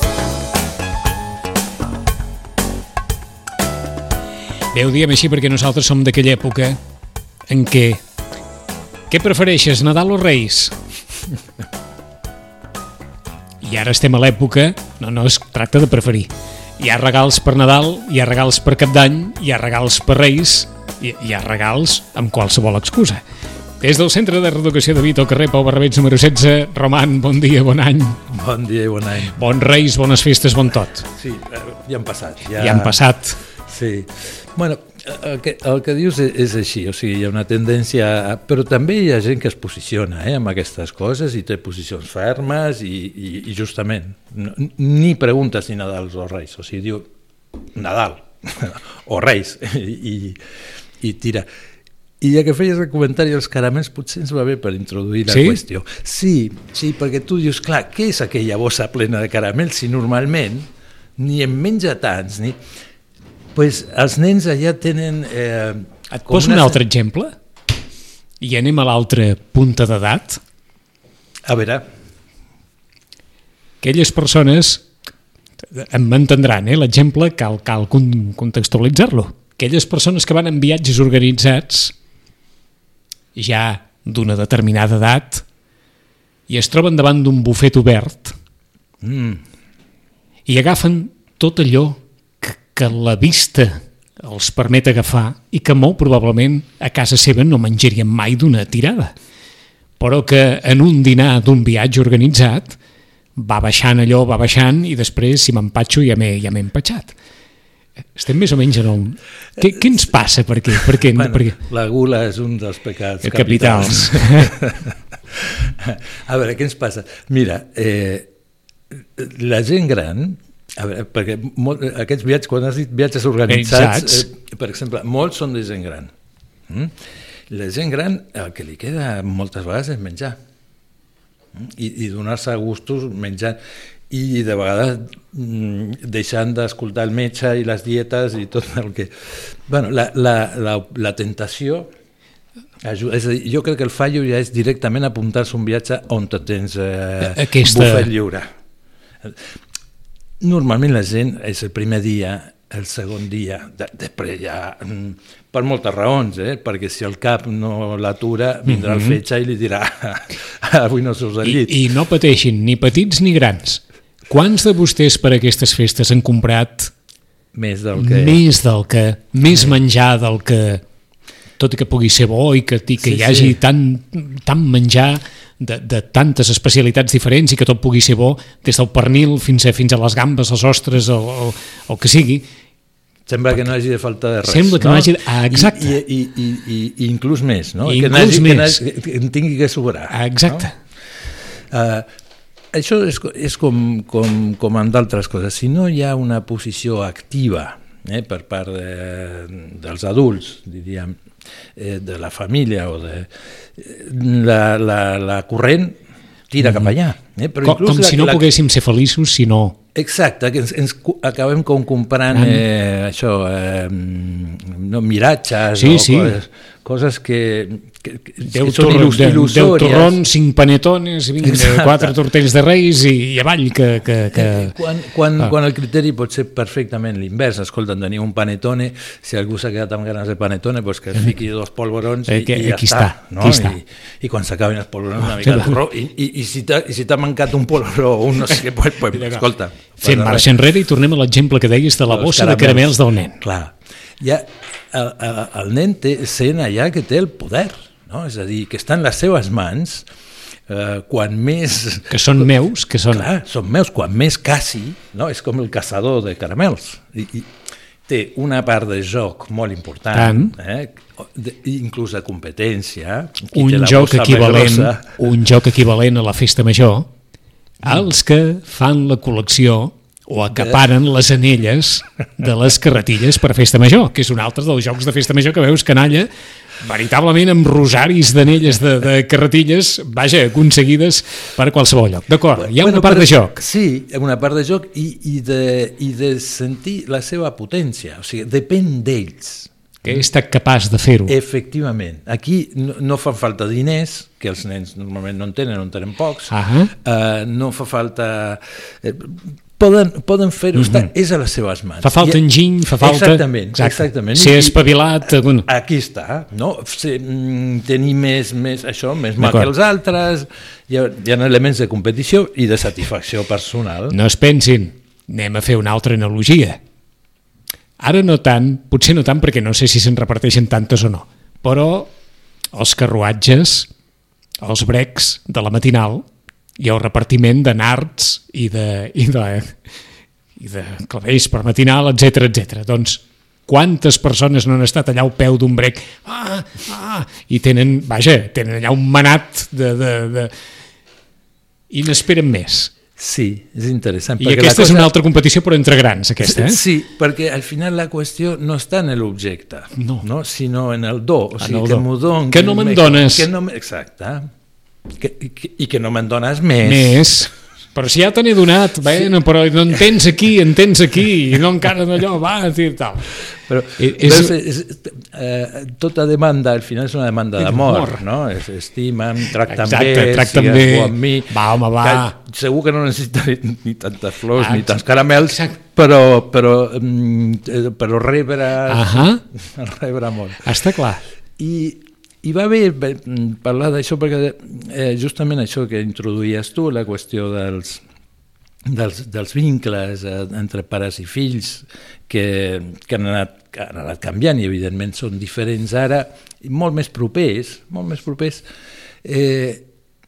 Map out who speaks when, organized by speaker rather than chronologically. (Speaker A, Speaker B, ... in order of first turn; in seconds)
Speaker A: 4.7-6.8, 7.5-8.0, 9.1-10.7, 13.6-23.2, 23.8-28.2, 29.3-31.1, 32.6-33.4, 55.3-55.6, 66.1-67.3, 68.4-70.4, 73.8-74.8, 75.6-81.9, 83.3-85.4, 86.5-88.3, 90.5-99.1, 100.0-102.8, 103.3-107.1, 108.1-111.5, 113.2-114.5, 123.5-124.2, 147.2-148.1, 158.7-159.2, 161.4-166.9, 167.9-170.8, 171.6-182.5, 184.4-186.0, 187.8-188.8, 190.1-190.7, 206.6-206.9, 207.6-209.8, 212.3-212.6, 215.7-216.3, 218.4-224.7, 232.3-233.8, 235.2-235.8, 239.1-239.4, 240.0-243.4, 252.1-253.3, 260.1-260.5, 263.5-267.1, 267.8-276.3, 276.8-283.6, 290.0-291.3, 296.5-296.9, 300.8-301.1, 302.0-305.7, 309.4-309.7, 314.1-316.8, 318.0-322.1, 322.7-323.9, 324.6-326.2, 326.8-329.8, 330.6-340.5, 341.9-342.9, 344.4-346.8, 350.0-350.2, 351.6-353.5, 356.8-363.3, 364.0-364.5, 367.6-368.2, 369.6-372.3, 374.6-375.8, 378.9-379.4, 380.6-381.2
Speaker B: 28.3-29.4, 31.1-33.0, 33.6-47.1, 47.7-50.4, 51.0-51.5, 52.2-62.6, 63.5-66.8, 71.5-71.8, 89.0-89.4, 109.9-118.3, 118.9-126.1, 126.7-126.9, 127.5-130.4, 131.5-133.6, 134.1-141.9, 142.8-148.5, 150.4-161.8, 167.5-168.4, 173.0-173.6, 183.3-190.7, 191.5-192.1, 192.7-201.2, 201.7-206.0, 206.5-208.5, 209.9-220.2, 221.4-222.2, 224.3-240.5, 242.1-250.1, 250.7-252.5, 253.1-257.5, 258.1-265.1, 270.5-270.8, 282.6-290.2, 291.3-302.4, 303.0-304.8, 305.6-314.1, 343.2-345.1, 346.4-354.5, 355.1-357.2, 363.5-380.7, 381.6-388.0, 388.9-398.6, 399.2-399.8